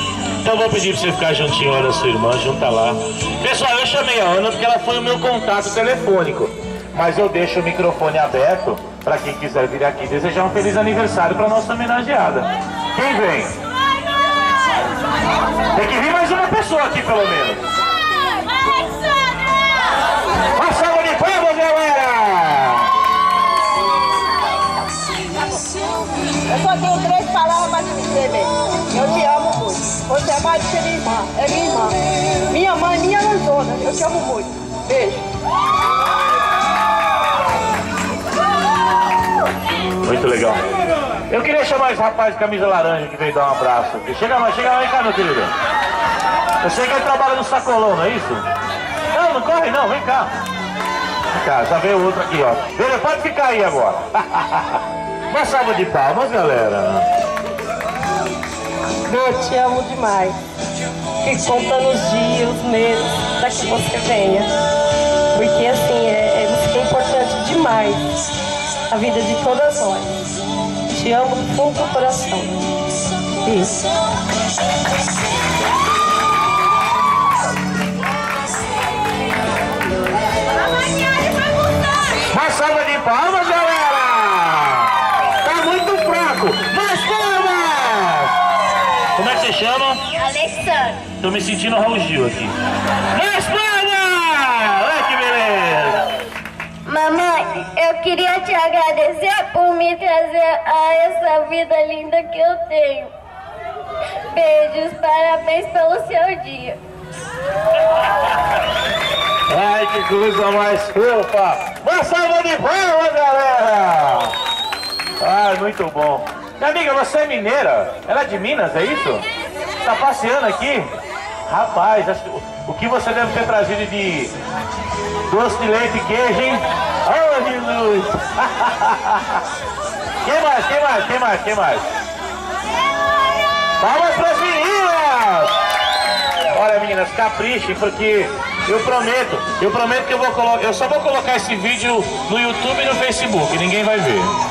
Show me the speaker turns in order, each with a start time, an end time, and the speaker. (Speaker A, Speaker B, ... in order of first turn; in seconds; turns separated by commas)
Speaker A: 0.4-13.6, Speaker A: 15.7-17.6, Speaker A: 20.6-22.9, Speaker B: 26.5-31.9, Speaker B: 32.5-35.2, Speaker A: 40.0-40.6, Speaker A: 41.3-45.5, Speaker A: 46.6-48.5, Speaker A: 49.1-50.3, Speaker A: 51.3-57.1, Speaker C: 59.1-60.4, Speaker C: 61.2-64.5, Speaker C: 65.3-68.0, Speaker C: 68.9-70.2, Speaker C: 70.9-72.8, Speaker C: 73.4-73.8, Speaker A: 82.3-84.9, Speaker A: 85.4-88.3, Speaker A: 89.2-90.0, Speaker D: 90.2-91.0, Speaker A: 91.2-92.5, Speaker A: 93.1-96.0, Speaker D: 96.9-103.1, Speaker D: 104.3-106.8, Speaker A: 109.5-114.3, Speaker A: 115.2-119.2, Speaker A: 119.8-120.9, Speaker A: 121.5-124.3, Speaker A: 125.3-129.4, Speaker A: 130.2-131.9, Speaker A: 133.8-135.6, Speaker A: 136.5-144.3